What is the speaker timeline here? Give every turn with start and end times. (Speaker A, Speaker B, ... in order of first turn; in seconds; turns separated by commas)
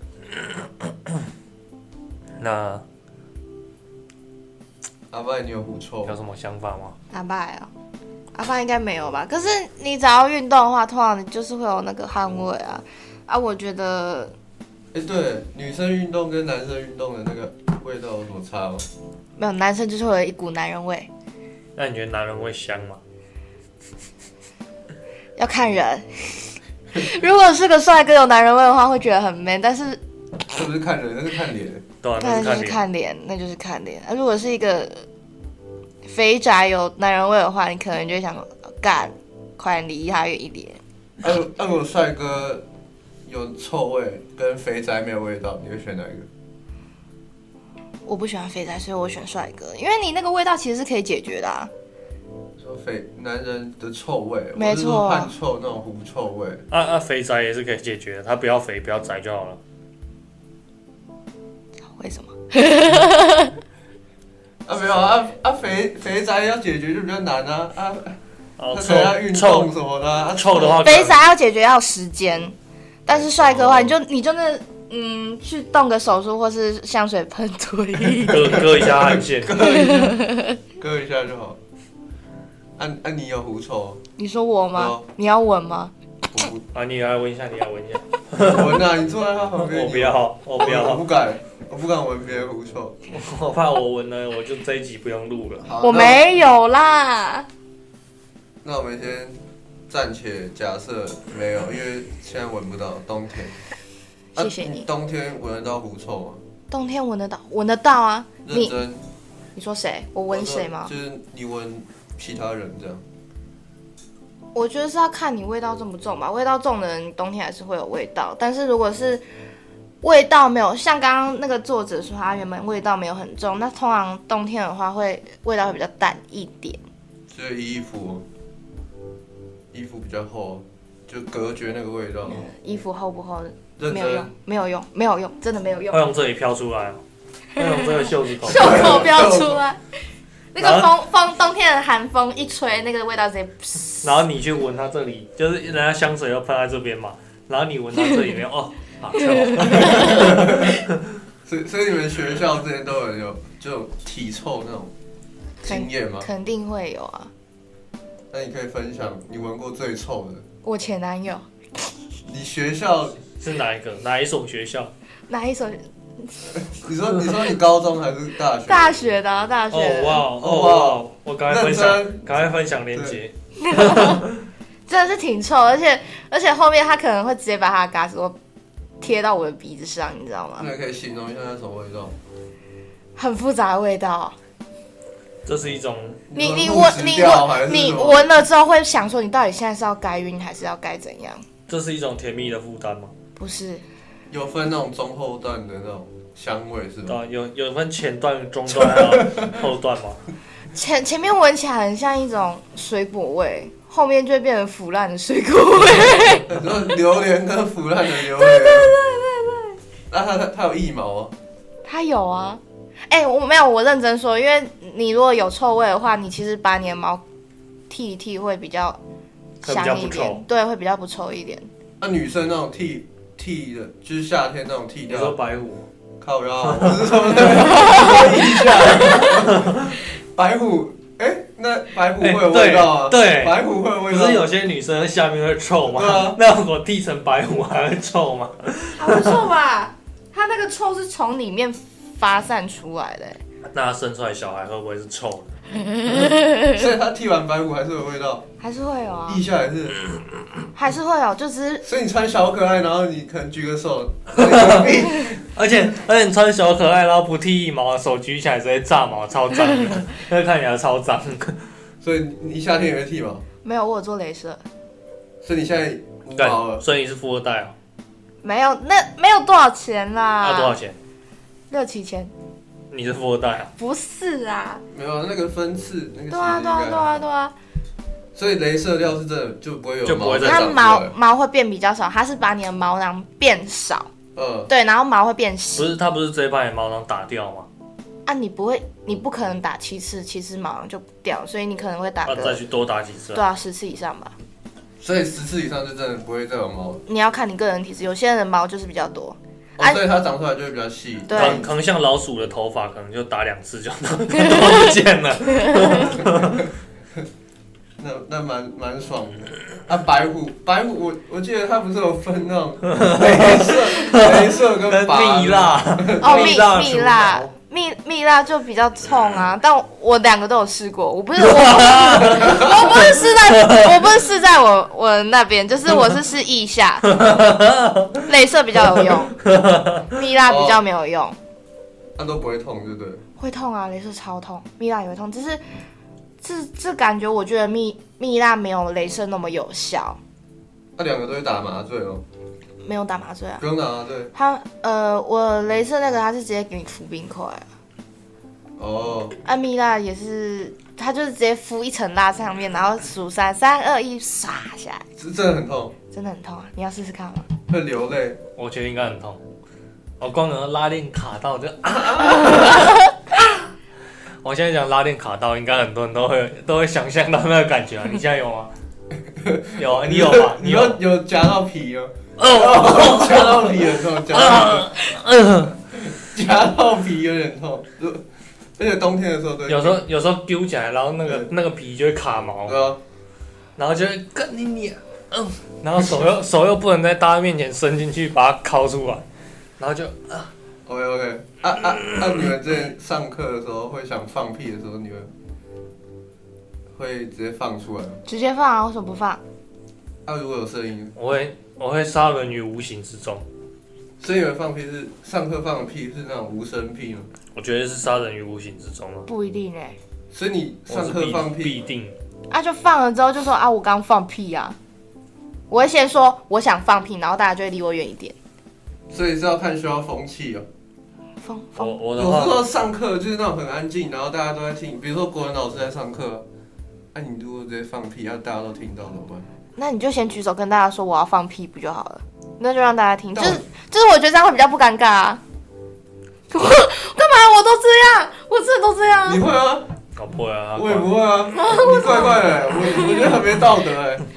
Speaker A: 0.3-1.2, Speaker A: 2.4-2.9, Speaker B: 5.1-6.2, Speaker A: 6.1-7.0, Speaker C: 7.1-7.7, Speaker C: 8.3-14.3, Speaker B: 14.9-18.9, Speaker C: 19.4-21.1, Speaker A: 21.8-23.0, Speaker C: 25.4-30.0, Speaker B: 30.5-31.9, Speaker A: 32.0-32.8, Speaker C: 32.2-35.1, Speaker C: 36.0-40.8, Speaker B: 41.2-42.6, Speaker B: 43.2-46.3, Speaker C: 48.1-51.7, Speaker B: 52.6-56.7, Speaker C: 54.6-55.3, Speaker A: 56.7-59.6, Speaker C: 62.0-63.6, Speaker B: 64.7-68.2, Speaker A: 68.6-69.7, Speaker B: 68.7-70.8, Speaker A: 70.3-71.2, Speaker C: 70.6-72.5, Speaker C: 73.1-78.6, Speaker B: 73.1-73.9, Speaker A: 78.2-79.6, Speaker B: 78.3-81.6, Speaker C: 79.6-80.6, Speaker B: 82.8-84.0, Speaker C: 84.2-85.9, Speaker B: 84.8-85.1, Speaker B: 86.3-86.7, Speaker A: 86.7-88.8, Speaker B: 88.3-93.0, Speaker A: 89.6-91.0, Speaker A: 93.1-95.7, Speaker B: 95.6-96.2, Speaker C: 95.8-97.5, Speaker B: 98.6-103.6, Speaker C: 104.4-104.9, Speaker B: 104.4-106.4, Speaker C: 106.7-108.8, Speaker B: 108.5-109.0, Speaker C: 109.6-110.9, Speaker B: 110.3-113.0, Speaker C: 114.5-119.2, Speaker C: 120.0-126.8, Speaker B: 127.3-128.2, Speaker B: 129.7-132.5, Speaker C: 132.3-136.0, Speaker B: 133.8-134.3, Speaker A: 135.9-137.0, Speaker A: 137.6-139.1, Speaker C: 138.4-139.8, Speaker B: 138.5-139.6, Speaker C: 140.5-144.2, Speaker A: 140.6-140.9, Speaker A: 144.0-150.9, Speaker C: 149.2-150.3, Speaker B: 149.7-150.8, Speaker B: 151.4-154.9, Speaker B: 155.6-156.3, Speaker C: 155.7-157.3, Speaker B: 158.3-160.4, Speaker C: 160.6-161.5, Speaker B: 162.2-163.2, Speaker A: 163.4-164.9, Speaker C: 165.3-166.6, Speaker B: 166.7-169.0, Speaker C: 168.7-170.2, Speaker A: 169.7-174.4, Speaker B: 170.3-172.3, Speaker B: 172.9-173.2, Speaker C: 173.6-174.2, Speaker C: 174.9-178.4, Speaker C: 179.0-180.7, Speaker B: 180.6-182.2, Speaker C: 183.2-184.4, Speaker A: 185.5-186.2, Speaker B: 186.3-188.3, Speaker C: 186.3-191.4, Speaker A: 191.7-193.1, Speaker C: 193.4-193.8, Speaker B: 194.3-197.2, Speaker A: 197.1-200.2, Speaker B: 198.7-199.5, Speaker C: 200.7-206.5, Speaker B: 206.5-209.0, Speaker C: 208.3-209.8, Speaker B: 210.1-211.3, Speaker C: 211.8-217.2, Speaker C: 217.9-219.0, Speaker C: 219.6-221.7, Speaker A: 219.6-220.4, Speaker B: 222.0-225.4, Speaker A: 225.1-225.9, Speaker B: 226.2-234.5, Speaker A: 226.6-228.2, Speaker C: 227.7-229.3, Speaker A: 229.1-229.9, Speaker A: 232.2-239.5, Speaker B: 235.9-236.4, Speaker C: 239.0-243.4, Speaker A: 243.7-245.6, Speaker C: 246.0-246.8, Speaker B: 246.5-248.5, Speaker C: 248.6-249.4, Speaker B: 249.3-250.0, Speaker C: 250.8-251.8, Speaker B: 251.8-255.4, Speaker A: 254.4-261.6, Speaker B: 262.0-263.4, Speaker C: 263.6-264.6, Speaker B: 265.4-266.8, Speaker A: 266.4-267.8, Speaker C: 268.4-270.8, Speaker A: 270.4-271.0, Speaker C: 271.7-272.3, Speaker A: 272.9-273.7, Speaker C: 273.8-274.8, Speaker B: 274.9-277.2, Speaker C: 276.3-277.5, Speaker B: 278.4-281.1, Speaker A: 280.1-280.7, Speaker C: 280.4-284.1, Speaker B: 284.4-284.7, Speaker C: 284.7-285.9, Speaker A: 285.8-287.7, Speaker C: 288.2-292.6, Speaker A: 292.2-293.4, Speaker C: 293.3-294.3, Speaker B: 295.0-297.0, Speaker C: 297.1-300.0, Speaker B: 299.8-301.7, Speaker C: 301.3-301.6, Speaker A: 301.3-306.7, Speaker C: 305.6-306.2, Speaker B: 306.2-306.7, Speaker B: 308.0-316.7, Speaker A: 312.9-317.5, Speaker C: 316.2-327.4, Speaker A: 321.4-324.0, Speaker B: 322.2-322.9, Speaker A: 327.1-328.2, Speaker C: 328.2-329.4, Speaker A: 329.0-330.1, Speaker C: 330.1-331.4, Speaker B: 330.5-330.8, Speaker B: 332.2-333.2, Speaker C: 333.4-335.6, Speaker C: 336.4-340.2, Speaker B: 341.0-342.2, Speaker C: 342.8-343.6, Speaker B: 343.6-344.3, Speaker C: 344.3-347.7, Speaker B: 348.8-349.4, Speaker C: 349.4-355.0, Speaker B: 355.2-355.9, Speaker C: 356.1-357.5, Speaker B: 357.7-358.4, Speaker A: 358.6-359.4, Speaker A: 360.2-363.6, Speaker B: 361.9-362.8, Speaker A: 364.4-368.7, Speaker B: 369.3-374.9, Speaker A: 369.8-371.0, Speaker A: 372.4-375.8, Speaker B: 375.9-378.2, Speaker B: 378.8-380.0, Speaker A: 379.7-382.8, Speaker B: 381.2-381.5, Speaker B: 382.7-383.0, Speaker A: 383.8-389.2, Speaker A: 389.8-390.5, Speaker B: 390.9-395.3, Speaker A: 391.9-392.3, Speaker B: 396.9-398.2, Speaker C: 398.2-399.4, Speaker B: 400.2-401.1, Speaker A: 401.2-403.5, Speaker B: 404.2-407.3, Speaker A: 407.5-409.3, Speaker C: 409.2-410.0, Speaker B: 410.3-411.9, Speaker A: 410.9-412.2, Speaker C: 412.5-414.8, Speaker C: 415.7-418.4, Speaker B: 419.1-420.7, Speaker C: 421.4-422.0, Speaker A: 421.8-422.6, Speaker B: 422.2-426.5, Speaker B: 427.1-429.5, Speaker C: 429.8-435.4, Speaker B: 433.4-433.6, Speaker C: 436.5-439.4, Speaker B: 439.2-439.9, Speaker A: 440.2-441.1, Speaker B: 440.8-444.2, Speaker C: 441.5-443.3